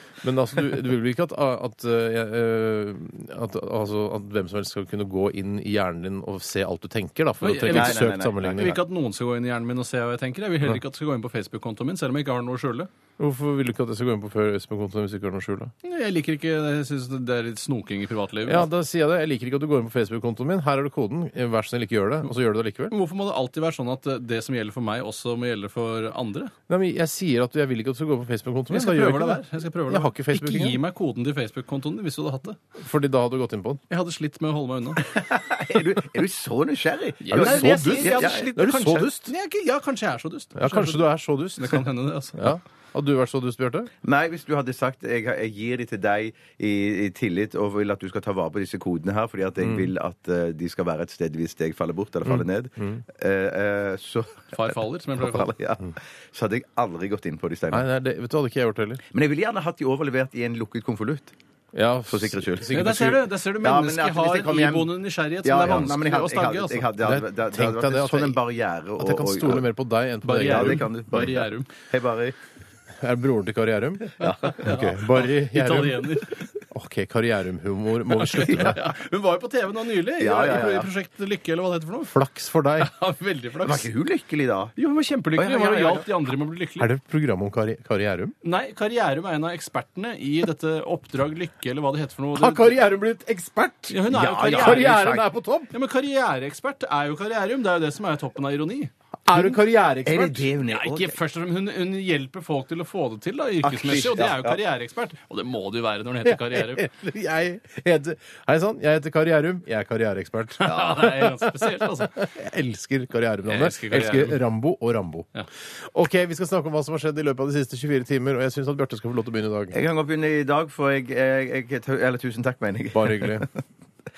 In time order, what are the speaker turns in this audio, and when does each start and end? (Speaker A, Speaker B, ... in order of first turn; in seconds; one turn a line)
Speaker A: 0.2-8.8
Speaker B: 7.4-12.9
Speaker C: 7.7-8.8
Speaker A: 13.2-15.7
Speaker B: 15.8-18.7
Speaker A: 18.4-22.9
Speaker B: 22.9-26.5
Speaker A: 26.7-30.8
Speaker B: 28.7-32.6
Speaker A: 32.8-33.8
Speaker B: 33.9-35.1
Speaker C: 35.1-38.5
Speaker B: 37.2-42.4
Speaker A: 37.3-39.3
Speaker A: 40.5-41.8
Speaker A: 42.4-43.9
Speaker C: 44.0-54.6
Speaker A: 49.6-49.9
Speaker A: 52.3-53.0
Speaker B: 54.5-55.5
Speaker C: 55.2-57.9
Speaker A: 57.7-59.0
Speaker C: 59.1-61.3
Speaker A: 61.7-63.2
Speaker C: 62.1-62.7
Speaker B: 62.7-66.9
Speaker C: 63.6-69.7
Speaker A: 67.0-68.4
Speaker A: 69.0-70.8
Speaker B: 70.2-71.7
Speaker C: 70.4-72.3
Speaker A: 73.0-78.8
Speaker C: 74.2-74.6
Speaker B: 74.2-76.5
Speaker B: 78.1-82.1
Speaker C: 80.2-80.9
Speaker A: 82.1-82.9
Speaker B: 82.8-83.9
Speaker C: 83.6-84.8
Speaker B: 84.8-86.9
Speaker C: 85.4-86.1
Speaker A: 86.8-88.3
Speaker B: 88.4-92.8
Speaker A: 92.4-95.7
Speaker B: 93.9-95.0
Speaker C: 94.1-95.3
Speaker B: 95.7-98.9
Speaker A: 99.3-100.5
Speaker C: 100.0-101.2
Speaker B: 100.7-106.9
Speaker C: 103.6-104.6
Speaker A: 106.2-119.8
Speaker B: 110.6-112.1
Speaker C: 110.7-111.0
Speaker B: 113.5-114.4
Speaker C: 119.7-123.5
Speaker A: 122.9-123.5